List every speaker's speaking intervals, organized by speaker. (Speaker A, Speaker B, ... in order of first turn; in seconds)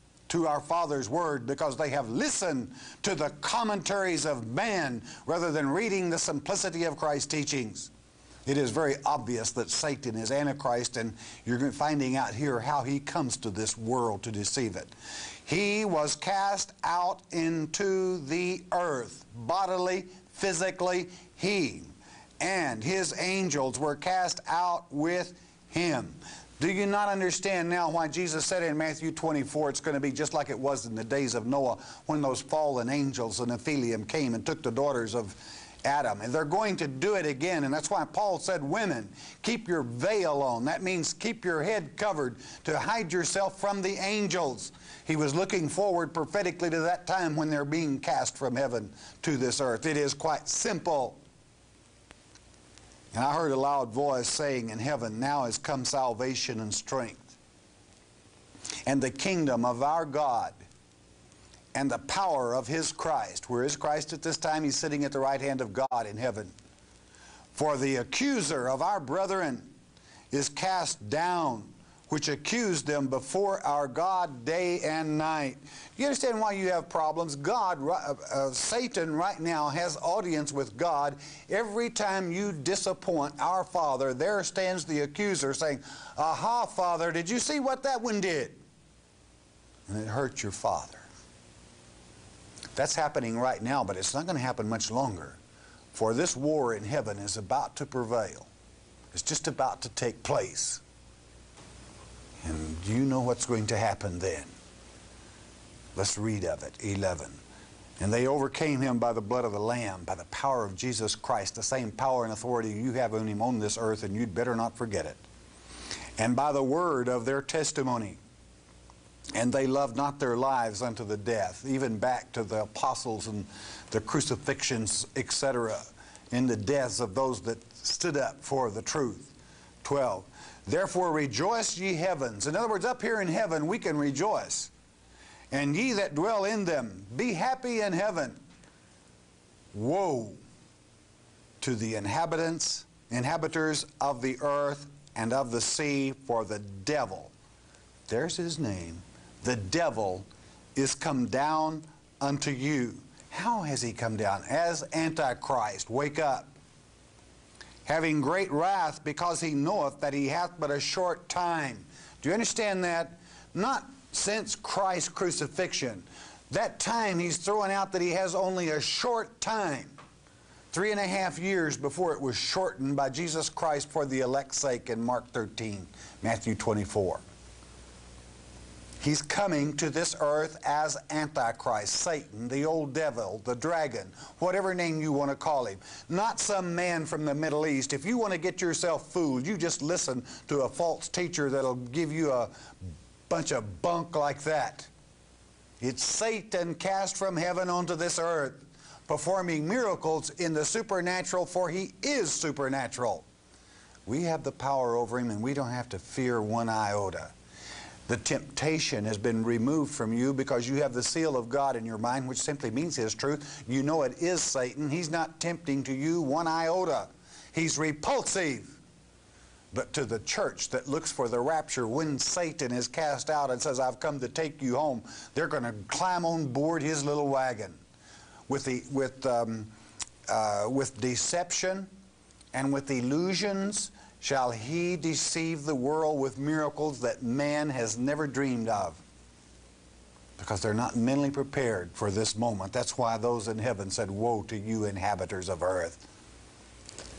Speaker A: 0.3-7.9, 8.5-14.9, 15.5-51.2, 53.1-57.4, 58.9-60.6, 61.7-66.5, 67.5-69.7, 70.3-88.6, 89.9-91.1, 92.8-95.4, 95.9-98.5, 99.1-100.8, 102.4-104.5, 106.0-107.4, 108.0-115.2, 116.2-118.2, 119.3-134.7, 135.5-138.4, 139.7-140.4, 141.6-147.3, 148.1-156.5, 157.8-170.0, 170.7-177.2, 179.0-194.9, 195.8-203.3, 204.1-207.3, 208.1-218.8, 219.7-227.8, 228.5-229.7, 230.3-231.9, 232.5-239.0, 240.4-246.0